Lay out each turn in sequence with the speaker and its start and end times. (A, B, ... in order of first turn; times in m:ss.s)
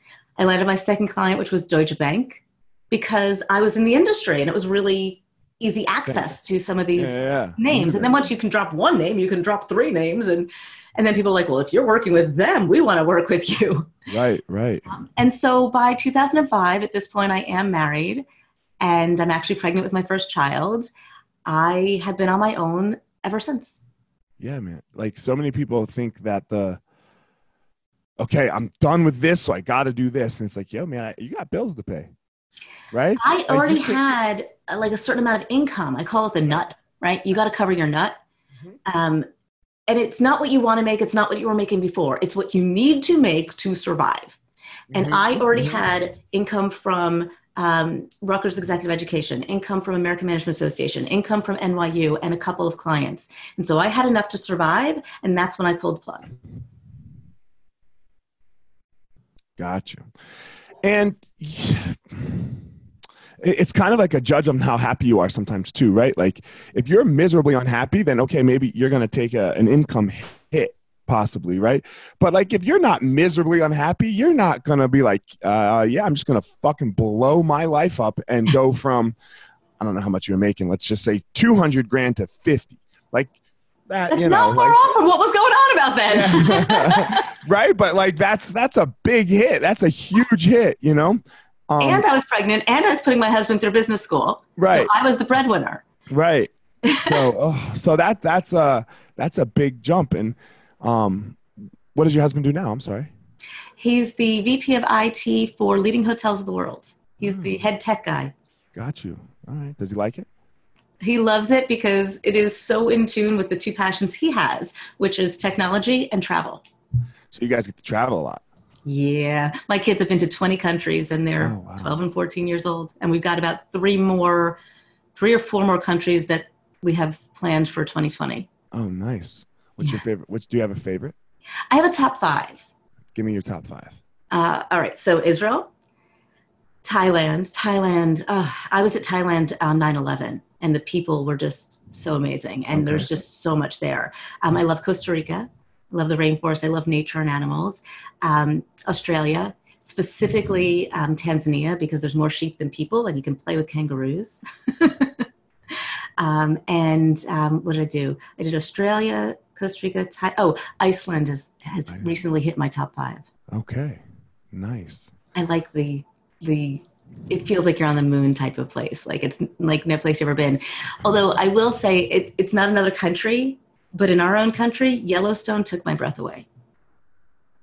0:00.4-0:13.9 A
0:06.0-0:06.3 B
0:07.0-0:08.2 B
0:14.1-0:15.0 B
0:15.0-0:18.2 A
0:18.8-0:20.9 A
0:21.4-0:23.8 A
0:24.4-0:26.8 B
0:28.2-0:32.1 B
0:32.9-0:34.0 B
0:33.2-0:38.2 A
0:38.8-0:39.2 A
0:39.9-0:44.4 A
0:44.9-0:45.8 B
0:44.9-0:56.3 A
0:59.6-1:00.0 B
1:00.8-1:02.6 B
1:03.4-1:19.2 B
1:19.8-1:23.3 B
1:23.9-1:24.8 B
1:24.1-1:27.2 A
1:26.1-1:32.0 B
1:31.8-1:35.8 A
1:34.6-1:34.9 B
1:36.1-1:41.4 B
1:36.8-1:37.2 A
1:41.9-1:43.1 B
1:43.8-1:48.3 A
1:47.2-1:47.6 B
1:48.7-1:50.3 B
1:51.0-1:56.6 A
1:57.3-1:58.4 B
1:58.8-2:04.6 A
2:01.4-2:01.9 B
2:05.1-2:08.5 A
2:08.7-2:11.2 B
2:11.7-2:12.6 A
2:13.1-2:14.0 B
2:14.3-2:15.7 A
2:16.8-2:43.2 A
2:22.7-2:23.1 B
2:43.5-2:45.1 B
2:45.3-2:56.4 A